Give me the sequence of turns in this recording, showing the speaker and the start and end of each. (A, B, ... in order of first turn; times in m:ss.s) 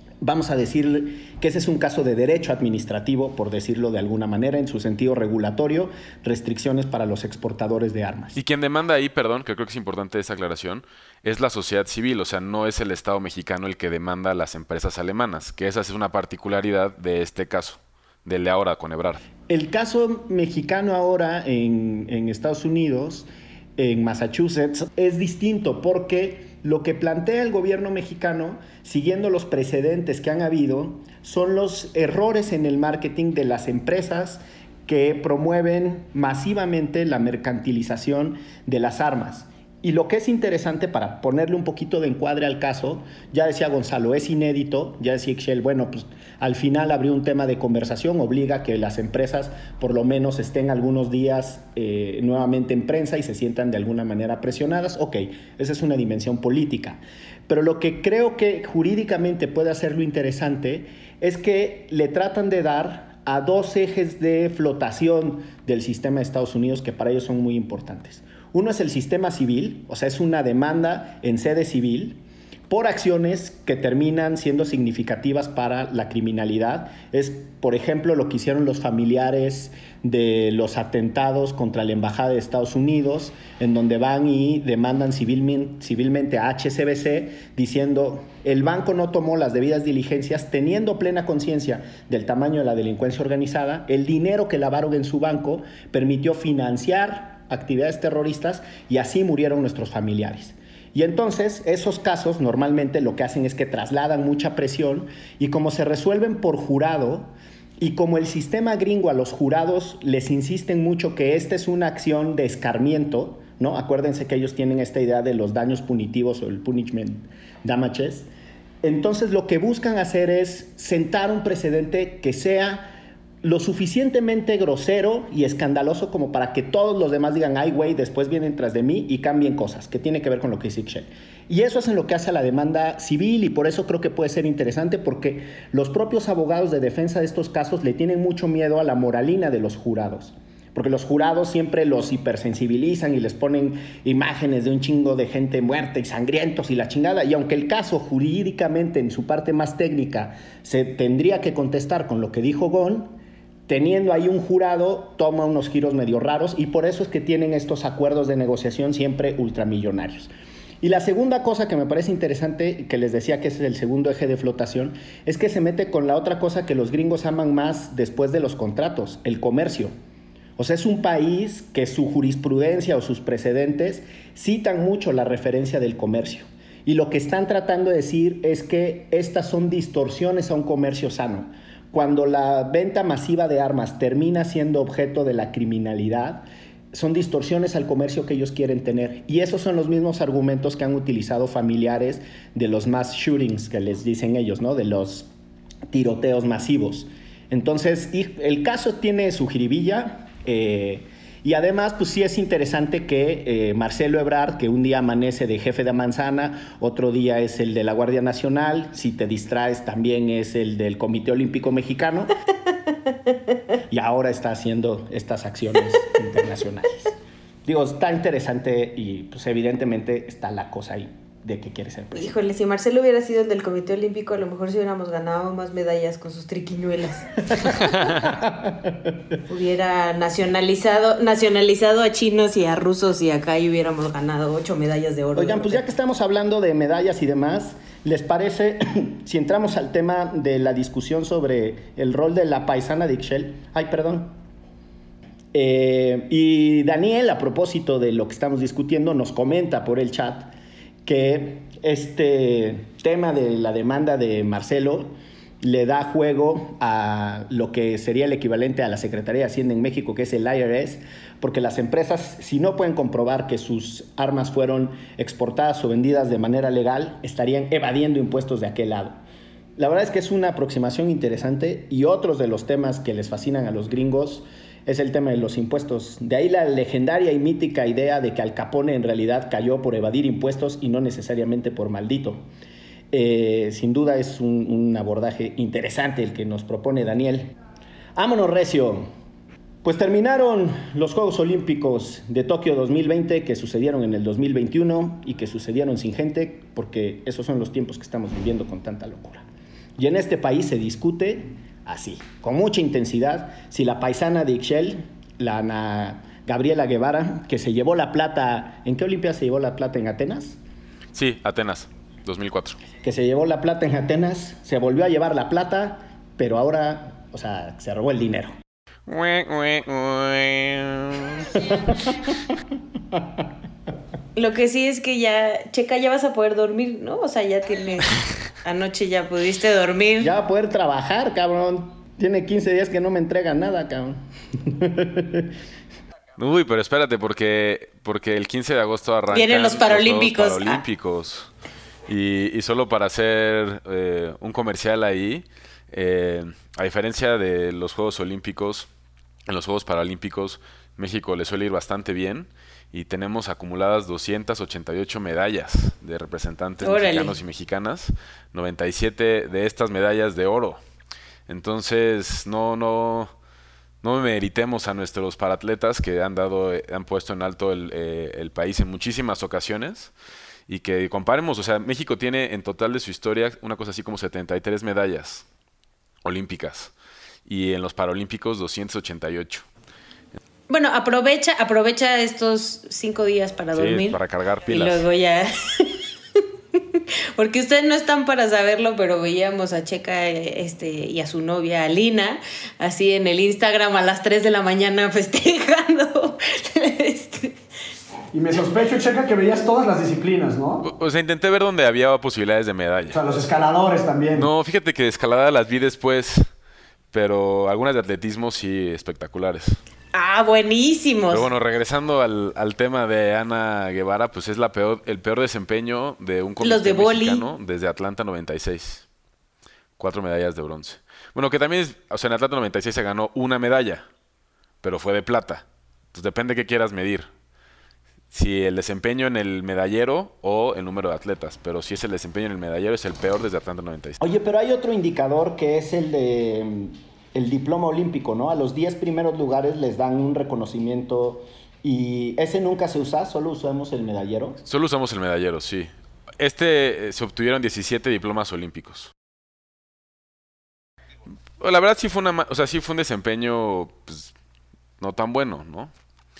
0:00.2-0:08.4 A
0:08.3-0:19.2 B
0:19.5-1:58.3 A
1:58.8-2:33.1 A
2:33.7-2:40.3 A
2:40.8-2:49.9 A
2:50.6-3:15.3 A
3:15.9-3:32.3 A
3:33.9-3:42.3 A
3:42.1-3:47.9 C
3:48.3-3:49.2 A
3:49.5-3:55.8 C
3:55.3-4:04.4 A
4:05.5-4:10.5 A
4:11.0-4:29.2 A
4:29.8-4:42.4 A
4:43.1-4:47.5 A
4:48.1-4:49.1 A
4:49.8-4:59.4 A
5:00.0-5:10.6 A
5:11.1-5:12.8 B
5:13.0-5:18.5 A
5:19.1-5:21.5 B
5:21.6-5:22.0 A
5:23.1-5:23.4 A
5:24.3-5:30.3 C
5:30.2-5:35.5 A
5:36.4-5:41.5 B
5:39.3-5:40.8 C
5:42.1-5:48.9 B
5:49.5-6:00.8 B
5:56.8-5:57.3 C
6:01.5-6:03.3 B
6:04.0-6:10.1 B
6:10.7-6:15.4 B
6:16.2-6:16.9 B
6:17.4-6:19.6 B
6:20.7-6:24.2 C
6:23.7-6:25.0 B
6:24.7-6:26.0 C
6:26.9-6:37.6 C
6:38.3-6:40.8 D
6:40.8-6:43.2 B
6:43.1-6:44.5 D
6:44.3-6:46.5 B
6:47.1-6:49.8 B
6:50.1-6:51.5 C
6:51.3-6:59.0 B
6:56.6-6:57.4 C
7:00.0-7:04.0 B
7:04.8-7:07.3 B
7:08.3-7:14.2 B
7:14.2-7:24.6 A
7:24.6-7:29.1 B
7:31.6-7:34.3 B
7:35.0-7:35.9 B